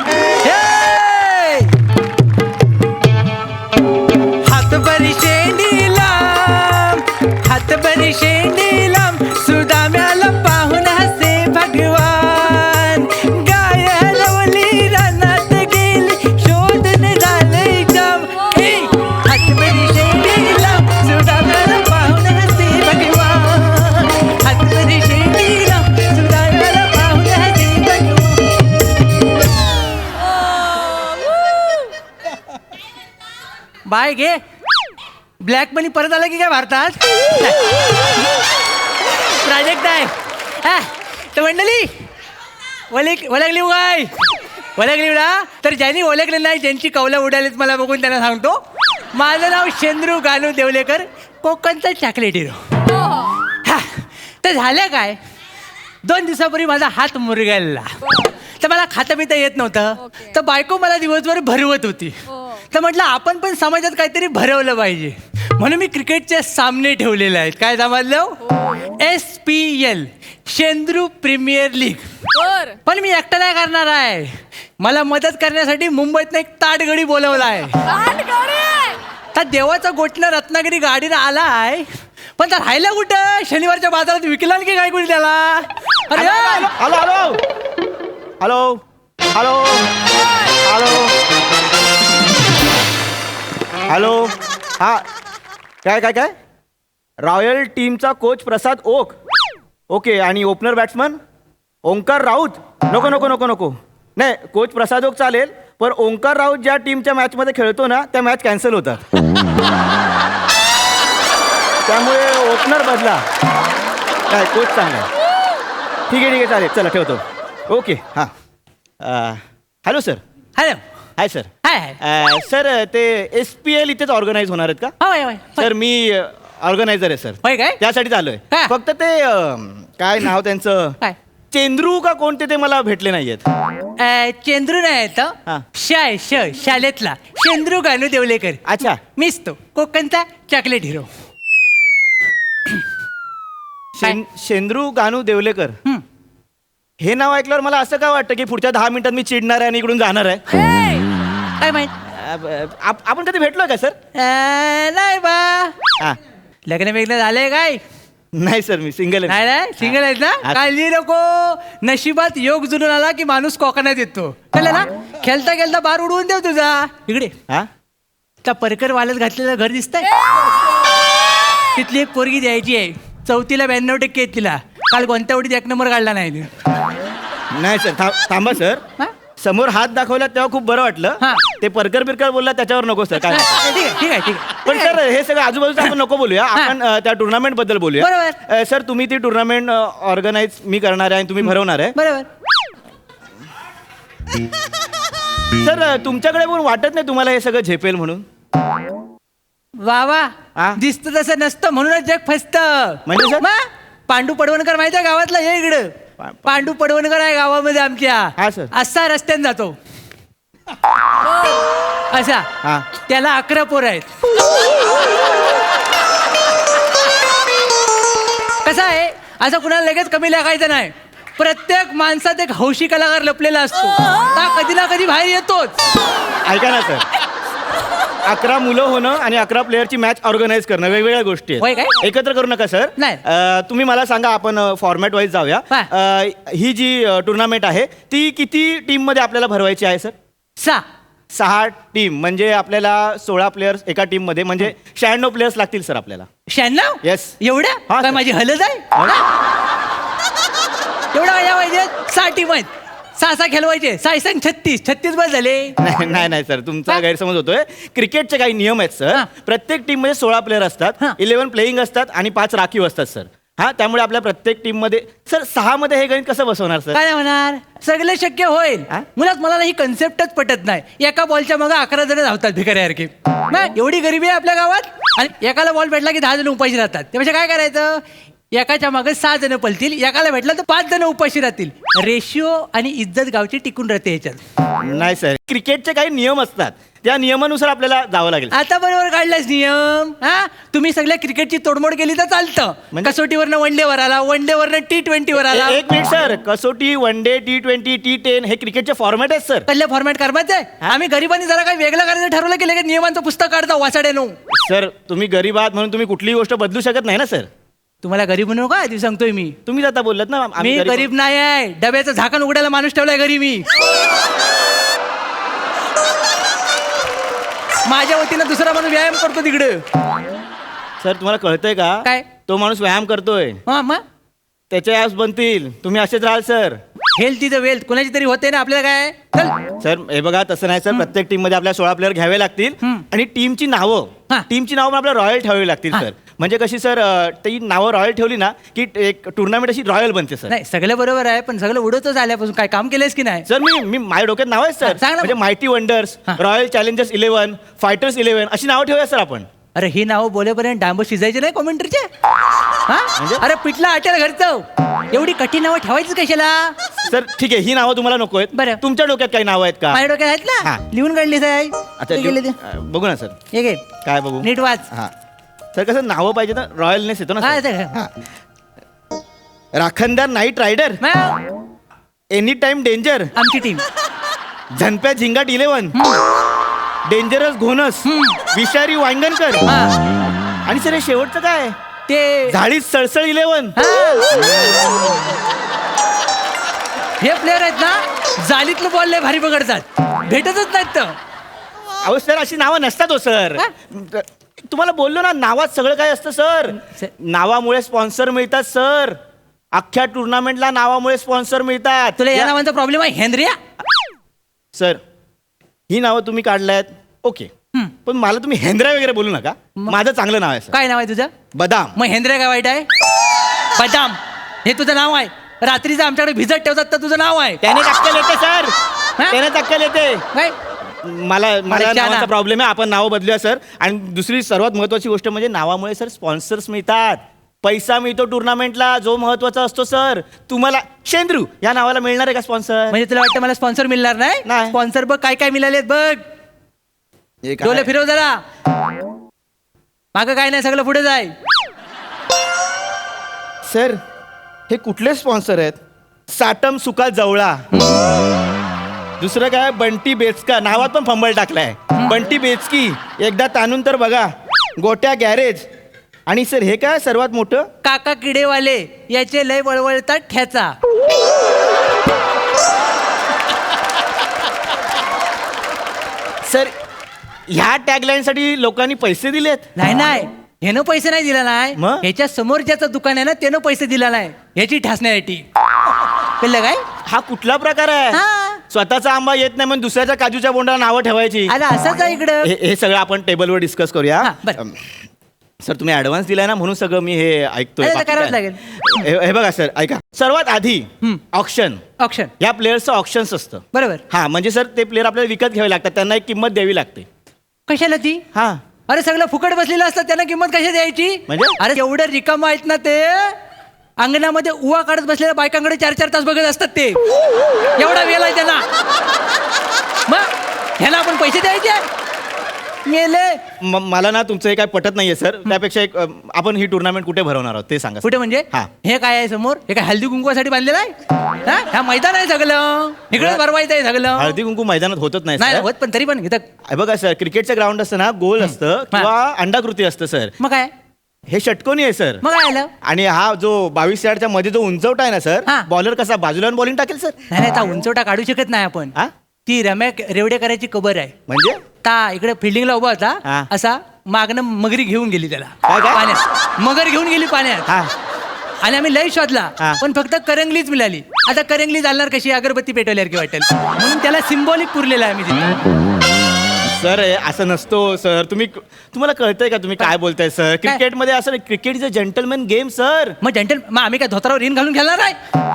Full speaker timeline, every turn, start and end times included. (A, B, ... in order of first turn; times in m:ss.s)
0:00.3-0:01.7 A
0:04.4-0:28.4 A
0:18.4-0:19.1 B
0:30.4-0:31.8 B
0:33.9-0:34.4 A
0:35.4-0:37.6 A
0:39.1-0:41.9 A
0:42.9-0:44.1 A
0:44.8-0:48.6 A
0:49.1-0:52.6 A
0:52.8-0:53.5 B
0:53.6-0:55.2 A
0:56.0-1:12.0 A
0:58.0-0:58.4 B
1:00.0-1:00.4 B
1:02.3-1:02.7 B
1:08.4-1:08.9 B
1:12.3-1:12.8 B
1:12.9-1:17.8 A
1:17.8-1:19.0 B
1:19.3-1:21.9 A
1:22.4-1:26.7 A
1:26.1-1:27.4 C
1:28.4-1:28.8 C
1:29.3-1:29.9 C
1:30.6-1:31.1 C
1:33.9-1:35.0 C
1:35.8-1:36.3 C
1:37.2-1:39.2 C
1:39.9-1:41.2 C
1:41.8-1:49.1 C
1:51.8-1:53.2 C
1:54.3-1:55.1 C
1:56.1-1:58.3 C
1:59.0-2:00.2 C
2:01.2-2:01.5 C
2:01.6-2:02.0 A
2:02.0-2:04.9 C
2:05.0-2:05.7 A
2:05.6-2:11.0 C
2:07.4-2:07.8 A
2:11.5-2:13.4 C
2:14.0-2:21.1 A
2:18.7-2:19.0 C
2:24.0-2:25.8 C
2:27.0-2:30.4 C
2:30.5-2:31.1 B
2:31.6-2:31.9 A
2:32.1-2:34.0 C
2:34.2-2:35.7 A
2:36.7-2:37.8 A
2:38.3-2:40.6 C
2:39.3-2:47.3 A
2:48.4-2:50.1 A
2:51.8-2:56.5 A
2:57.5-2:58.8 C
2:59.4-3:03.6 C
3:03.2-3:05.0 A
3:04.6-3:12.0 C
3:08.0-3:08.4 A
3:11.4-3:12.3 A
3:15.6-3:18.2 C
3:19.8-3:25.9 A
3:23.1-3:23.5 C
3:26.2-3:26.7 C
3:26.4-3:29.8 A
3:28.4-3:28.7 C
3:31.2-3:31.6 B
3:32.1-3:32.5 A
3:33.0-3:34.1 A
3:38.6-3:45.8 A
3:46.4-3:47.0 C
3:48.2-4:00.1 C
3:51.6-3:52.0 A
4:00.6-4:00.8 A
4:01.3-4:06.3 C
4:06.5-4:09.2 A
4:07.0-4:07.4 C
4:07.9-4:08.2 C
4:11.1-4:15.7 A
4:15.8-4:27.0 C
4:26.9-4:38.0 A
4:38.5-4:44.4 A
4:44.8-4:48.6 C
4:48.5-4:55.8 A
4:55.4-4:59.7 C
4:59.7-5:04.4 A
5:04.5-5:07.5 C
5:08.0-5:09.6 A
5:09.7-5:11.1 C
5:10.6-5:13.7 A
5:17.9-5:19.8 A
5:21.0-5:23.6 C
5:23.7-5:24.0 A
5:24.7-5:26.8 C
5:27.2-5:29.6 A
5:29.8-5:40.5 C
5:40.5-5:43.4 A
5:43.5-5:49.5 C
5:44.8-5:45.4 A
5:49.8-5:52.1 A
5:52.9-5:56.8 A
5:53.2-5:53.4 C
5:57.1-6:00.0 C
5:58.5-5:58.8 A
5:59.9-6:02.6 A
6:02.0-6:03.4 C
6:03.5-6:03.8 A
6:04.0-6:05.1 C
6:04.4-6:04.9 A
6:05.8-6:08.1 C
6:07.4-6:08.0 A
6:09.8-6:11.0 C
6:11.0-6:11.4 A
6:12.3-6:13.3 C
6:13.4-6:13.8 A
6:14.7-6:16.0 C
6:15.9-6:16.2 A
6:17.0-6:19.7 C
6:18.1-6:18.4 A
6:19.7-6:19.9 A
6:20.7-6:21.8 C
6:22.1-6:22.6 A
6:22.5-6:23.8 C
6:23.8-6:24.4 A
6:27.2-6:31.1 A
6:32.0-6:39.2 C
6:36.8-6:37.1 A
6:39.7-6:42.6 C
6:42.2-6:43.6 A
6:44.8-6:45.0 C
6:45.9-6:47.5 C
6:48.1-6:50.8 C
6:50.7-6:51.3 A
6:51.5-6:51.9 C
6:52.0-6:52.9 A
6:53.8-6:57.6 A
6:57.6-6:58.8 C
6:59.3-7:00.2 C
7:01.0-7:13.0 C
7:01.7-7:02.3 A
7:12.9-7:16.2 A
7:14.4-7:14.8 C
7:17.4-7:17.9 C
7:17.6-7:18.4 A
7:20.1-7:21.3 A
7:23.6-7:24.0 C
7:24.7-7:25.8 C
7:26.3-7:27.7 C
7:29.2-7:35.7 C
7:36.3-7:37.7 C
7:37.8-7:40.7 A
7:46.4-7:46.7 C
7:47.5-7:49.7 C
7:49.8-7:55.4 A
7:51.8-7:52.1 C
7:56.4-7:56.8 A
7:57.1-8:01.6 C
7:58.1-7:58.6 A
8:01.5-8:02.5 A
8:02.4-8:05.0 C
8:04.2-8:04.6 A
8:05.6-8:11.8 C
8:07.8-8:09.0 A
8:12.0-8:12.3 A
8:12.4-8:17.0 C
8:13.7-8:14.0 A
8:17.7-8:18.2 A
8:18.3-8:18.6 C
8:18.9-8:23.4 A
8:21.3-8:21.6 C
8:24.0-8:27.0 A
8:27.8-8:28.6 A
8:30.1-8:31.9 A
8:32.9-8:33.4 A
8:33.6-8:38.7 C
8:38.0-8:40.9 A
8:41.4-8:44.4 A
8:43.1-8:43.4 C
8:44.1-8:45.7 C
8:45.4-8:46.5 A
8:46.7-8:50.3 C
8:48.4-8:49.1 A
8:50.4-8:50.7 A
8:51.3-8:52.2 C
8:52.2-8:52.7 A
8:52.8-8:57.1 C
8:57.3-8:58.9 A
8:59.5-9:01.1 A
9:01.3-9:01.6 C
9:01.8-9:07.7 A
9:05.7-9:06.0 C
9:08.6-9:15.7 A
9:16.6-9:23.2 C
9:23.2-9:25.2 A